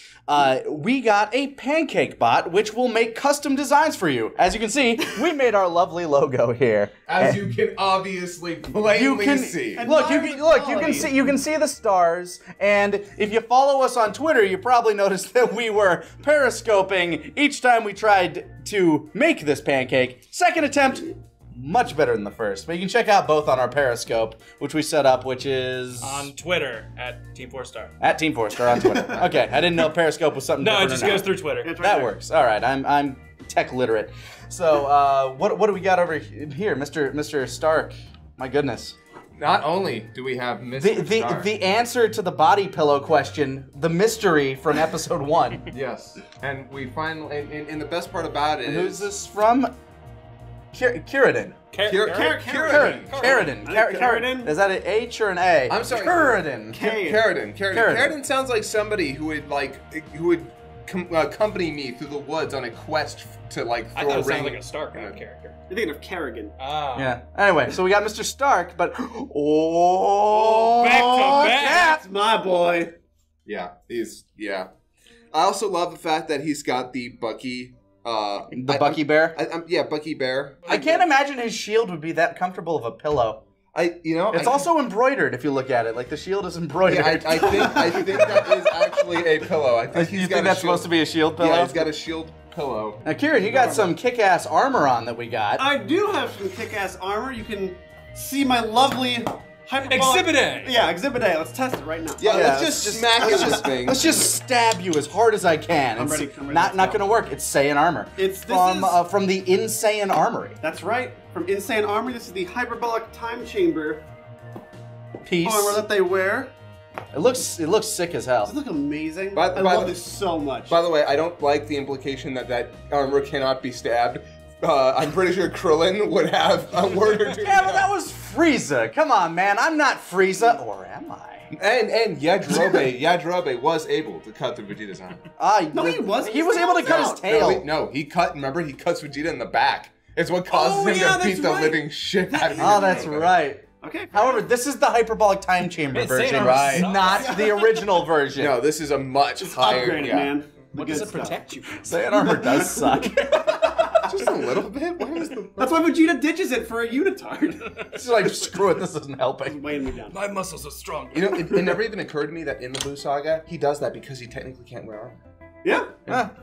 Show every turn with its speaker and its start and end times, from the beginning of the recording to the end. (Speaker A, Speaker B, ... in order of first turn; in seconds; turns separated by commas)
Speaker A: 0.3-7.4, Speaker B: 7.1-9.9, Speaker A: 8.8-26.3, Speaker C: 9.8-11.1, Speaker D: 26.0-27.9, Speaker A: 28.0-39.0, Speaker D: 30.6-31.8, Speaker C: 31.6-32.1, Speaker B: 39.4-41.5, Speaker A: 40.8-45.7, Speaker B: 45.7-49.1, Speaker A: 48.6-49.7, Speaker A: 50.7-51.6, Speaker D: 51.7-53.6, Speaker B: 51.8-54.1, Speaker C: 52.0-54.5, Speaker A: 52.7-57.0, Speaker B: 55.7-65.2, Speaker C: 56.7-57.2, Speaker A: 57.7-58.1, Speaker D: 63.9-65.6, Speaker C: 65.7-66.5, Speaker D: 66.6-67.2, Speaker A: 67.0-72.0, Speaker C: 70.5-73.0, Speaker D: 70.8-71.9, Speaker B: 73.5-74.7, Speaker B: 75.3-80.9, Speaker A: 78.5-79.4, Speaker D: 80.7-80.9, Speaker A: 80.7-83.4, Speaker B: 83.7-84.7, Speaker A: 84.3-88.0, Speaker B: 86.8-93.9, Speaker C: 87.6-88.4, Speaker A: 89.9-91.9, Speaker A: 93.0-95.7, Speaker C: 95.6-102.6, Speaker D: 99.9-100.8, Speaker B: 102.2-104.2, Speaker A: 102.2-110.6, Speaker C: 106.0-107.0, Speaker C: 108.2-109.0, Speaker C: 110.6-114.0, Speaker A: 115.2-115.8, Speaker C: 115.4-116.5, Speaker A: 117.1-118.5, Speaker C: 118.5-120.8, Speaker B: 119.3-120.0, Speaker B: 120.7-127.8, Speaker A: 127.3-131.5, Speaker B: 131.5-135.2, Speaker A: 135.4-137.7, Speaker C: 135.7-137.5, Speaker B: 136.8-143.4, Speaker C: 140.5-143.1, Speaker A: 142.6-148.6, Speaker C: 143.8-144.4, Speaker D: 145.9-147.7, Speaker B: 146.3-147.3, Speaker B: 148.4-150.3, Speaker C: 149.5-151.4, Speaker D: 150.7-152.0, Speaker A: 151.7-153.6, Speaker C: 152.3-154.1, Speaker B: 154.0-155.8, Speaker C: 155.6-157.9, Speaker A: 157.9-159.6, Speaker C: 159.4-160.2, Speaker D: 160.1-161.3, Speaker B: 161.1-165.2, Speaker C: 165.6-166.0, Speaker A: 166.1-166.3